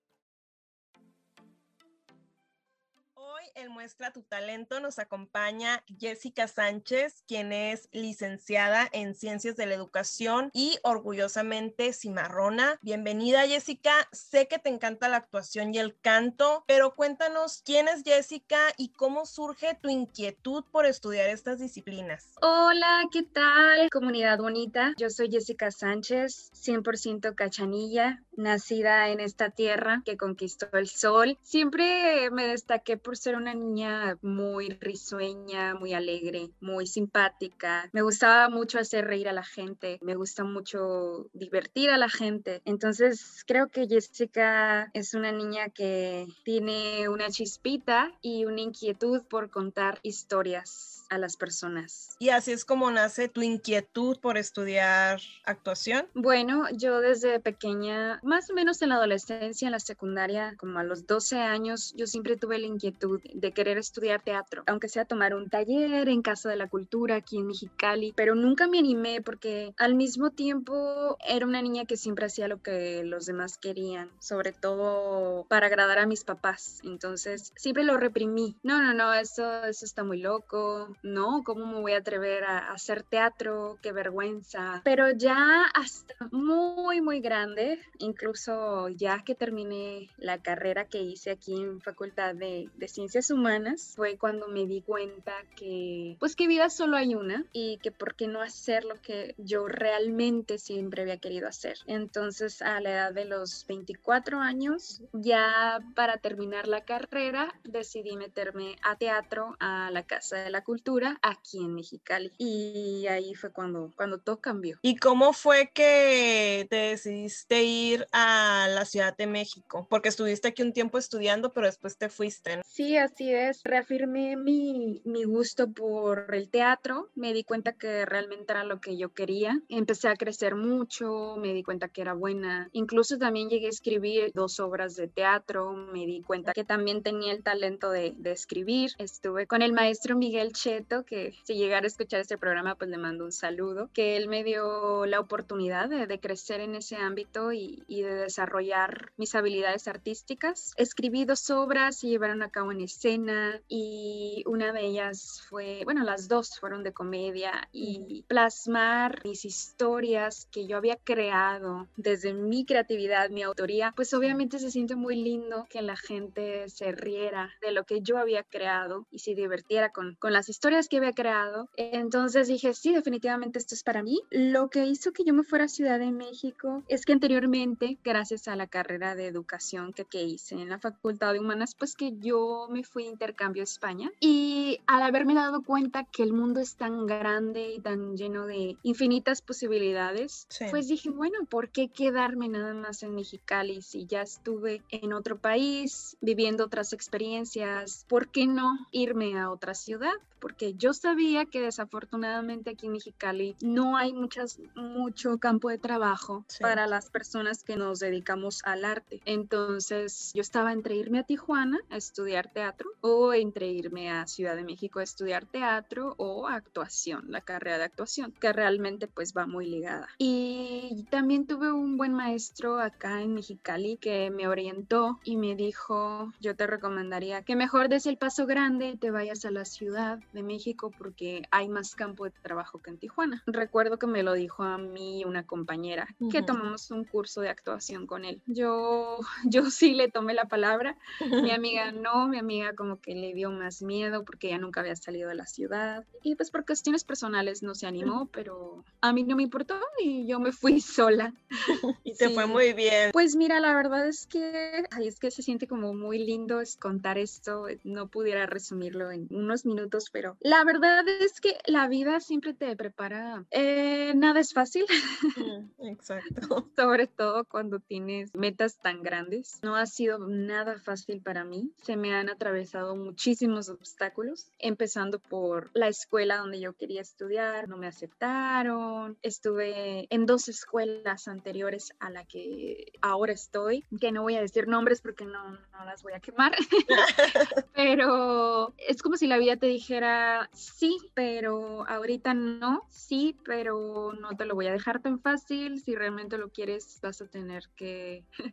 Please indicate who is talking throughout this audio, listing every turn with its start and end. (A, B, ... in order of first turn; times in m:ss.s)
0:03.2-0:22.3 A
0:22.4-0:52.2 B
0:52.2-0:56.1 A
0:56.1-1:54.8 B
1:54.8-2:02.6 A
2:02.6-4:11.4 B
3:10.5-3:10.8 A
3:26.5-3:26.8 A
3:56.2-3:56.6 A
4:01.2-4:01.5 A
4:12.0-4:13.1 A
4:12.1-4:12.6 B
4:13.1-4:25.4 B
4:25.4-4:26.6 A
4:26.7-4:47.1 B
4:46.9-4:47.5 A
4:47.6-4:58.3 B